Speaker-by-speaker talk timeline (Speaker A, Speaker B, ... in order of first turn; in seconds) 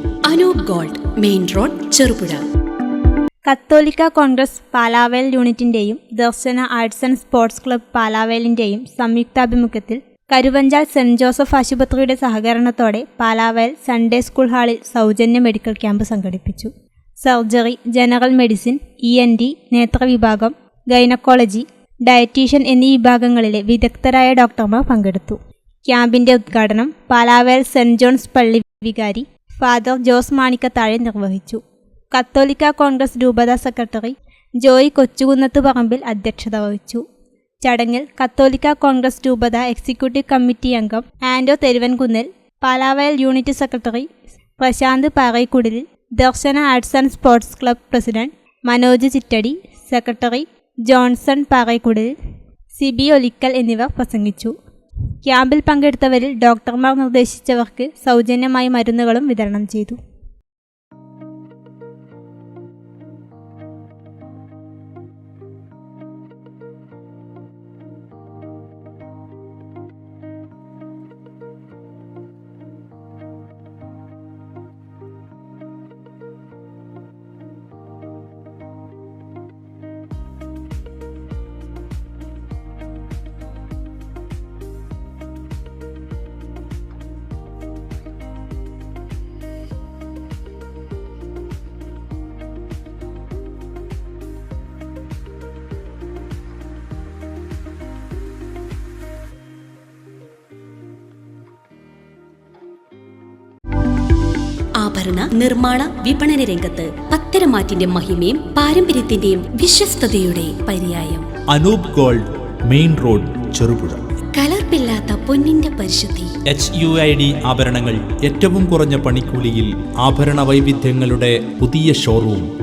Speaker A: 0.3-2.4, 104.8-111.3, 114.3-116.3
Speaker B: 3.5-31.6, 32.1-37.0, 37.6-52.1, 52.7-54.5, 55.2-60.0
Speaker C: 111.5-114.0, 116.5-122.5